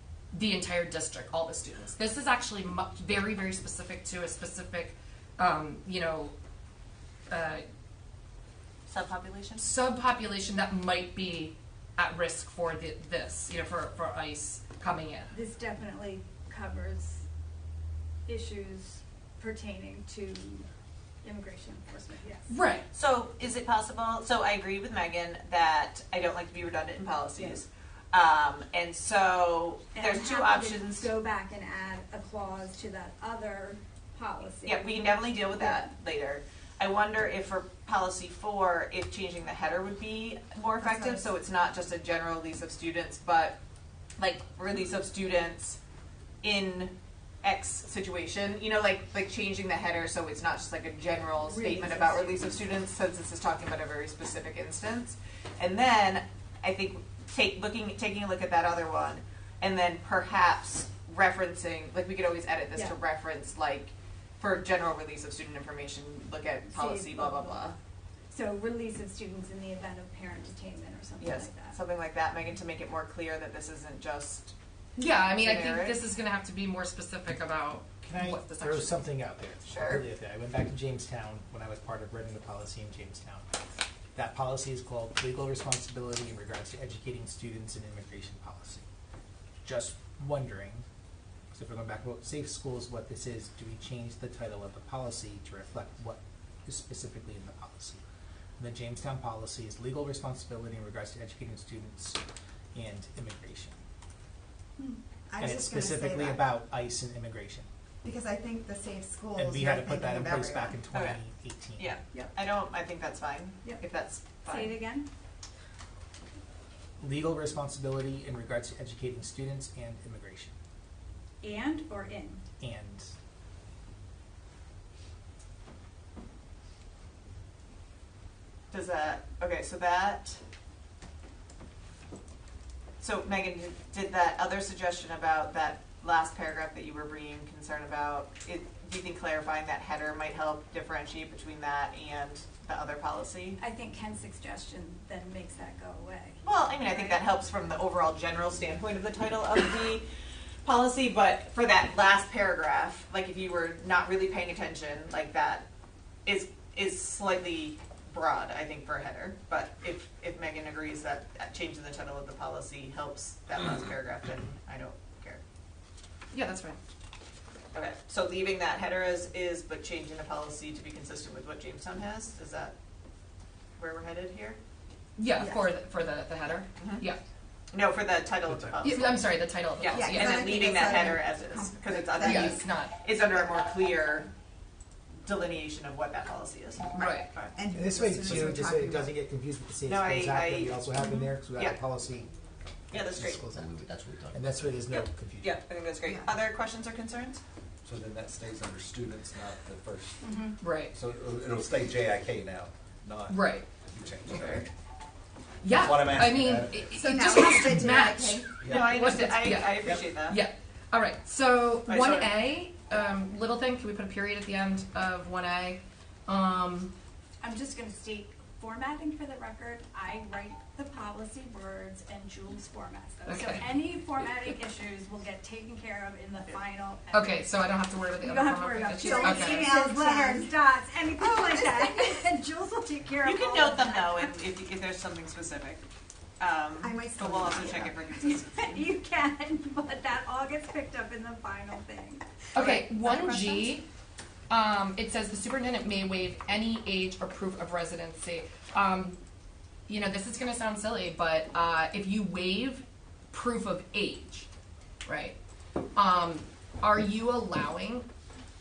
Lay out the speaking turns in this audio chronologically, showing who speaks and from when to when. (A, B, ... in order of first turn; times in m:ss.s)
0:00.3-0:06.3 A
0:07.3-0:07.6 A
0:08.9-0:09.6 B
0:09.6-0:15.3 A
0:15.3-0:17.3 C
0:18.3-0:20.7 C
0:21.2-0:22.5 C
0:22.5-0:22.9 A
0:22.9-0:31.1 B
0:29.9-0:35.8 C
0:34.6-0:43.6 B
0:40.8-0:41.3 D
0:44.2-0:45.8 B
0:46.4-1:07.8 B
0:51.4-0:52.6 C
1:06.7-1:07.7 C
1:08.3-1:11.8 C
1:11.2-1:16.0 B
1:15.0-1:19.0 A
1:18.0-1:23.5 E
1:19.6-1:20.0 B
1:24.1-1:28.8 E
1:29.6-1:30.8 E
1:31.5-1:38.0 E
1:38.6-1:42.2 E
1:42.7-1:43.8 E
1:45.3-1:46.5 D
1:45.4-1:47.7 E
1:48.0-1:50.8 D
1:49.4-1:51.9 E
1:50.9-1:51.2 B
1:51.8-1:54.8 B
1:54.4-1:55.1 C
1:57.0-2:00.5 E
2:01.4-2:02.5 C
2:02.6-2:03.1 E
2:08.7-2:10.4 B
2:13.0-2:23.6 B
2:23.6-2:27.2 C
2:26.4-2:30.0 B
2:30.6-2:35.6 B
2:36.2-2:45.4 B
2:46.3-2:46.8 A
2:47.7-2:52.7 B
2:53.8-2:54.6 B
2:55.2-2:57.2 A
2:55.4-2:55.7 D
2:56.8-2:57.0 B
2:57.7-3:04.3 B
2:58.8-3:00.9 A
2:59.9-3:02.6 D
3:02.2-3:02.9 A
3:05.2-3:07.6 B
3:06.9-3:09.1 D
3:06.9-3:07.3 A
3:07.7-3:12.3 E
3:09.8-3:11.8 B
3:12.9-3:15.6 E
3:12.9-3:13.4 B
3:14.9-3:17.4 B
3:16.0-3:16.3 D
3:17.8-3:20.1 F
3:20.2-3:20.6 C
3:20.6-3:20.9 A
3:20.9-3:24.6 F
3:23.3-3:23.6 A
3:24.3-3:24.6 B
3:25.6-3:36.9 A
3:25.8-3:27.0 F
3:25.9-3:26.6 E
3:27.0-3:28.6 D
3:28.6-3:28.9 F
3:28.6-3:30.4 B
3:31.9-3:32.3 B
3:37.4-3:47.4 C
3:43.2-3:43.8 A
3:47.1-3:49.7 A
3:48.2-3:54.4 C
3:49.0-3:50.6 D
3:51.2-3:52.0 D
3:53.2-3:55.8 B
3:56.4-3:58.9 B
3:56.8-3:58.1 D
3:58.2-4:02.2 C
4:02.5-4:03.8 A
4:02.6-4:03.8 B
4:04.5-4:09.2 A
4:09.9-4:14.5 A
4:15.0-4:15.4 A
4:15.9-4:18.1 A